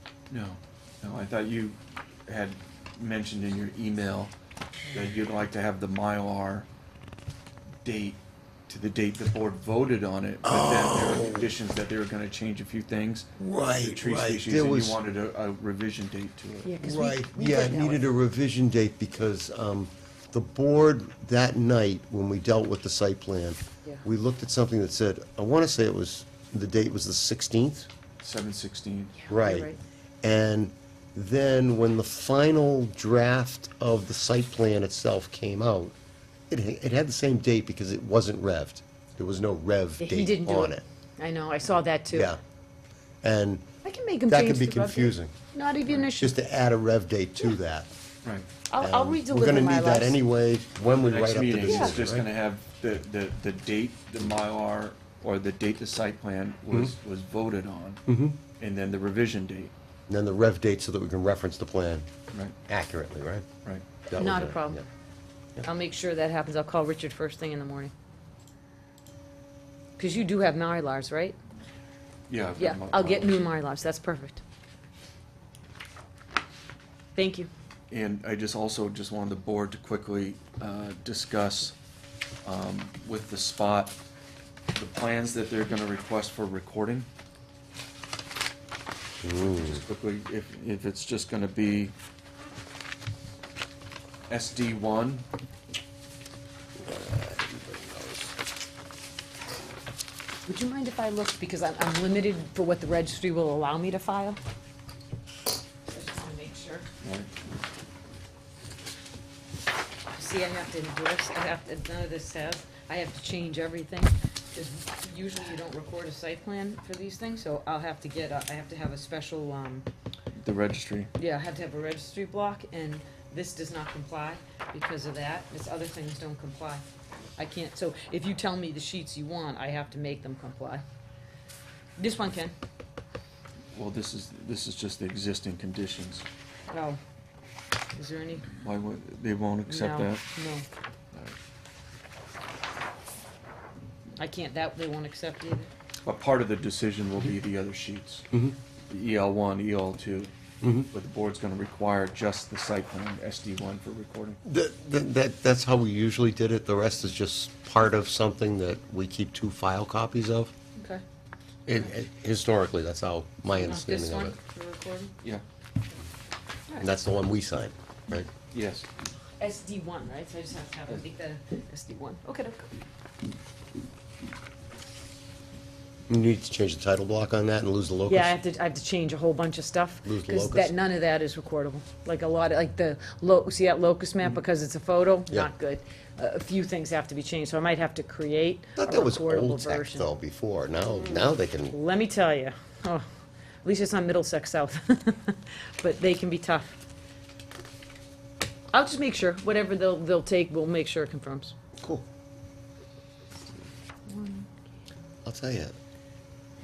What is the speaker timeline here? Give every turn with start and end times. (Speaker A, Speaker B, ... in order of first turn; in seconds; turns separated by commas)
Speaker A: 0.3-4.3, Speaker A: 4.9-6.7, Speaker A: 7.8-16.8, Speaker B: 10.4-11.5, Speaker B: 13.4-15.0, Speaker C: 16.6-18.0, Speaker B: 16.8-27.9, Speaker A: 28.2-29.2, Speaker C: 29.2-29.8, Speaker B: 29.3-29.7, Speaker B: 30.2-36.0, Speaker B: 36.5-40.8, Speaker C: 40.0-42.3, Speaker B: 42.1-42.4, Speaker B: 43.2-43.7, Speaker C: 43.8-46.4, Speaker B: 44.3-45.3, Speaker B: 46.1-47.9, Speaker C: 48.7-50.2, Speaker B: 48.8-52.3, Speaker A: 50.9-58.0, Speaker C: 51.6-51.9, Speaker B: 58.1-58.4, Speaker A: 58.6-59.7, Speaker B: 60.1-62.1, Speaker B: 62.7-63.5, Speaker B: 64.1-64.8, Speaker C: 64.1-64.8, Speaker C: 65.6-67.9, Speaker C: 70.0-71.4, Speaker A: 72.3-73.5, Speaker C: 72.6-74.4, Speaker C: 77.2-77.5, Speaker A: 77.9-81.8, Speaker A: 82.4-84.0, Speaker A: 84.7-87.1, Speaker B: 89.2-89.8, Speaker A: 89.4-91.9, Speaker A: 94.3-95.3, Speaker B: 96.8-98.3, Speaker C: 100.5-104.4, Speaker C: 105.9-106.9, Speaker A: 107.0-107.3, Speaker C: 110.1-119.9, Speaker A: 120.4-121.1, Speaker C: 121.2-126.8, Speaker C: 127.4-130.8, Speaker C: 132.0-132.5, Speaker A: 133.7-136.3, Speaker C: 136.7-137.0, Speaker C: 137.9-138.5, Speaker A: 138.5-140.2, Speaker C: 139.7-140.7, Speaker C: 144.2-145.7, Speaker A: 146.0-148.3, Speaker B: 148.3-148.6, Speaker A: 148.9-150.3, Speaker B: 150.6-150.9, Speaker A: 150.9-154.4, Speaker B: 154.4-160.5, Speaker C: 160.8-161.0, Speaker B: 161.7-164.4, Speaker C: 163.5-165.1, Speaker B: 166.8-168.3, Speaker A: 168.5-168.9, Speaker C: 169.4-172.7, Speaker B: 176.1-178.4, Speaker C: 178.1-190.1, Speaker B: 180.1-180.8, Speaker B: 188.8-191.8, Speaker C: 191.7-193.1, Speaker C: 193.6-196.8, Speaker C: 198.7-201.5, Speaker B: 201.8-202.1, Speaker C: 204.1-204.6, Speaker B: 205.2-205.8